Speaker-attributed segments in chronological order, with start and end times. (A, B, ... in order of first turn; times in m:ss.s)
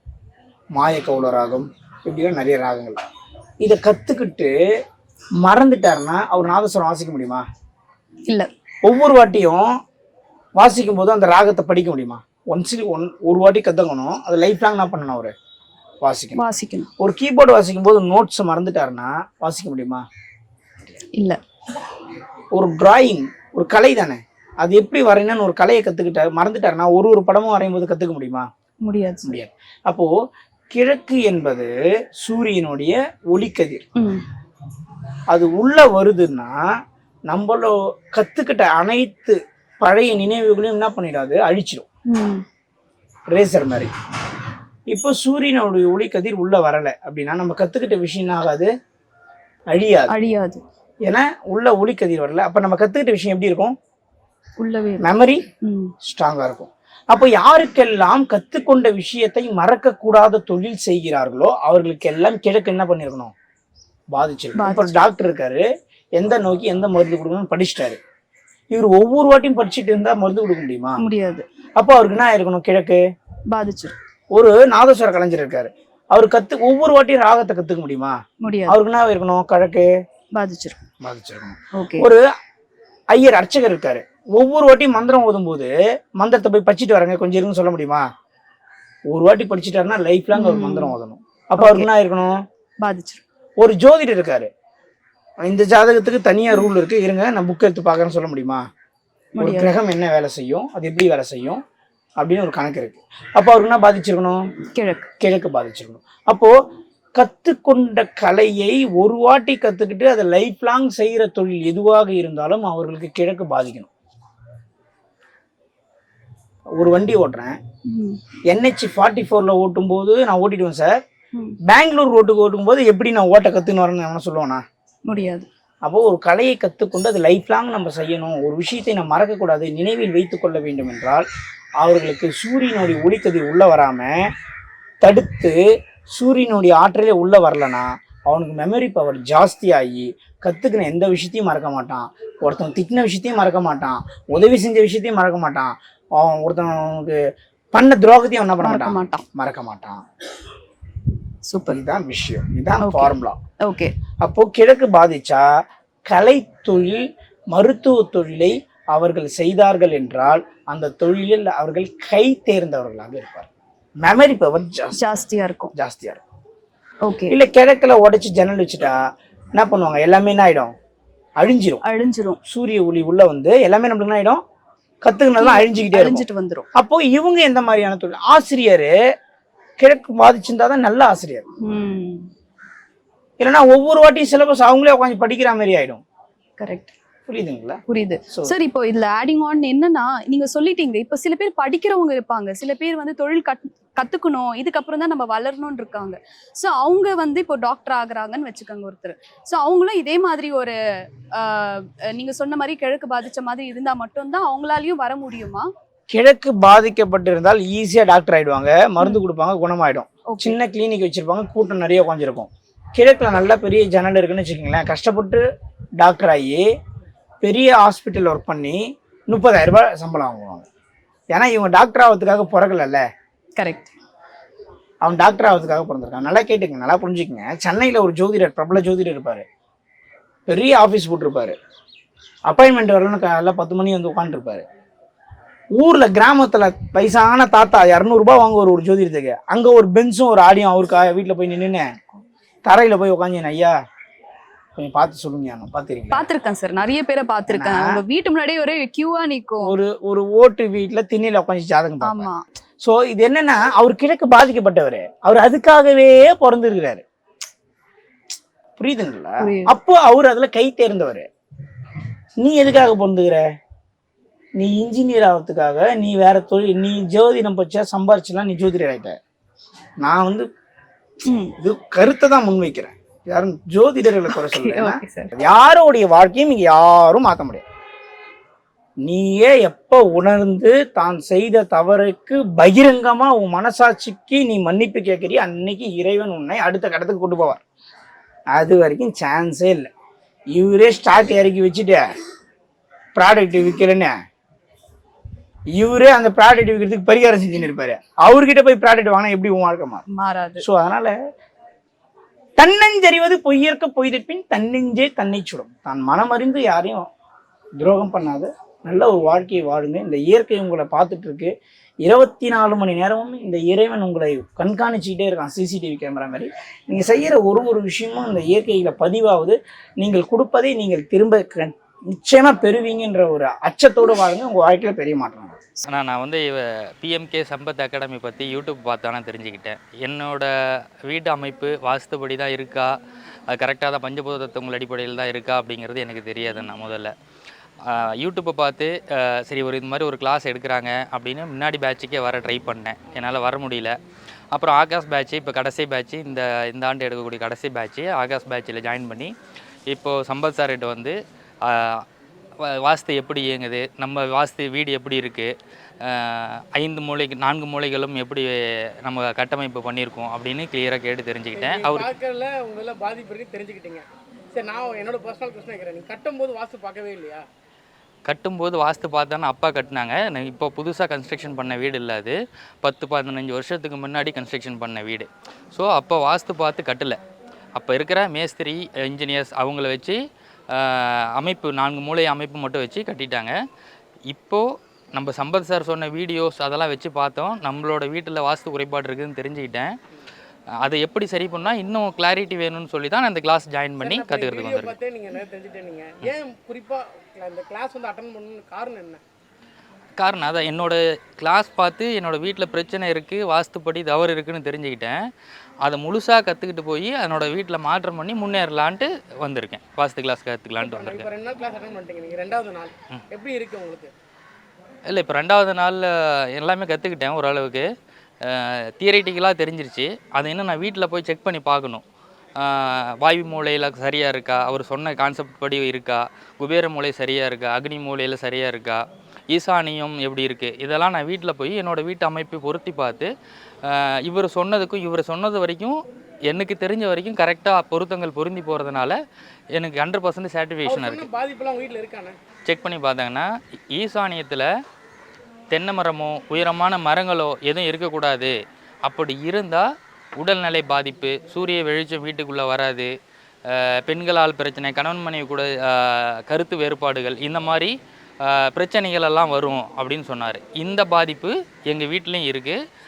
0:00.7-0:03.0 A
0:03.6-0:04.5 A
0:05.4-0:07.4 A
0:08.8-0:09.8 A
0:10.6-0:15.3 A
0:16.0-0:16.4 A
0:16.4-0:16.9 B
0:17.0-0:20.1 A
0:21.1-0:21.4 B
0:22.5-0:28.5 A
0:28.8-0:29.4 B
0:29.2-0:30.1 A
0:30.7-0:33.8 A
0:34.0-0:34.2 B
0:35.3-0:36.6 A
0:37.3-0:41.9 A
0:42.1-0:42.4 B
0:43.3-0:43.9 A
0:44.9-0:48.7 A
0:49.7-0:50.1 A
0:50.1-0:50.6 B
0:51.0-0:53.8 A
0:54.6-0:55.1 B
0:55.0-0:55.4 A
0:55.6-0:55.9 B
0:56.0-1:03.3 A
1:04.1-1:08.0 A
1:04.6-1:05.1 B
1:08.7-1:11.0 A
1:11.0-1:11.5 B
1:11.8-1:13.0 A
1:13.5-1:14.0 B
1:14.3-1:19.9 A
1:18.4-1:18.8 B
1:20.4-1:20.8 B
1:21.0-1:22.2 A
1:21.7-1:22.1 B
1:23.1-1:28.1 A
1:29.1-1:32.4 A
1:30.3-1:31.0 B
1:31.6-1:31.9 B
1:32.8-1:33.2 B
1:33.6-1:34.5 A
1:35.4-1:38.6 A
1:39.4-1:39.7 B
1:39.4-1:41.6 A
1:42.2-1:44.5 A
1:44.7-1:45.1 B
1:45.2-1:46.5 A
1:47.2-1:53.9 A
1:56.8-1:57.6 A
1:57.9-1:58.2 B
1:58.5-2:01.0 A
2:01.6-2:04.6 A
2:05.1-2:05.5 B
2:05.8-2:11.3 A
2:11.8-2:14.3 A
2:15.0-2:15.6 A
2:16.1-2:27.2 A
2:27.7-2:30.0 A
2:28.6-2:29.2 B
2:31.5-2:31.8 B
2:31.7-2:33.4 A
2:32.8-2:33.9 B
2:34.2-2:35.5 A
2:36.1-2:43.5 A
2:44.0-2:45.0 A
2:45.0-2:45.7 B
2:45.7-2:46.2 A
2:47.0-2:47.4 B
2:47.3-2:49.0 A
2:49.6-2:50.7 A
2:51.4-2:51.8 A
2:51.8-2:52.4 B
2:52.5-2:54.4 A
2:55.0-2:56.2 A
2:55.4-2:56.7 B
2:56.8-2:58.9 A
2:59.8-3:01.4 A
3:01.6-3:02.3 B
3:03.4-3:06.0 A
3:06.6-3:06.9 B
3:07.3-3:08.6 A
3:07.9-3:20.8 B
3:21.3-3:25.7 B
3:26.1-3:35.4 A
3:30.3-3:30.6 B
3:36.0-3:36.7 A
3:37.4-3:40.7 A
3:41.3-3:43.0 A
3:43.6-3:43.9 B
3:45.0-3:49.4 A
3:50.5-3:51.6 A
3:52.5-3:54.6 A
3:55.8-4:01.9 A
4:02.7-4:03.8 A
4:04.8-4:06.3 A
4:06.1-4:09.8 B
4:07.5-4:08.0 A
4:09.6-4:12.3 A
4:12.0-4:12.4 B
4:12.8-4:17.0 A
4:18.8-4:21.3 A
4:19.4-4:19.7 B
4:22.4-4:23.4 A
4:24.6-4:29.2 A
4:30.0-4:30.5 A
4:31.2-4:31.6 B
4:31.6-4:37.6 A
4:34.3-4:35.3 B
4:39.0-4:47.6 A
4:48.5-4:49.9 A
4:50.5-4:52.1 A
4:53.2-4:54.1 A
4:55.8-5:00.0 A
5:00.1-5:00.7 B
5:00.6-5:01.2 A
5:02.6-5:07.1 A
5:07.8-5:11.5 A
5:12.0-5:25.6 A
5:25.9-5:33.0 C
5:33.5-5:37.1 C
5:37.8-5:44.0 C
5:44.5-5:49.3 C
5:49.9-5:52.0 C
5:52.6-6:02.1 C
6:01.6-6:07.4 D
6:08.3-6:17.2 C
6:17.8-6:23.6 C
6:24.3-6:30.0 C
6:30.8-6:35.0 C
6:34.0-6:39.2 D
6:40.2-6:45.3 C
6:45.8-6:51.3 C
6:50.8-6:54.1 D
6:55.1-6:57.9 C
6:58.4-7:02.0 C
7:02.6-7:13.3 C
7:13.8-7:19.2 C
7:19.7-7:21.3 C
7:20.8-7:22.4 D
7:22.7-7:24.7 C
7:25.7-7:33.1 C
7:33.7-7:42.8 C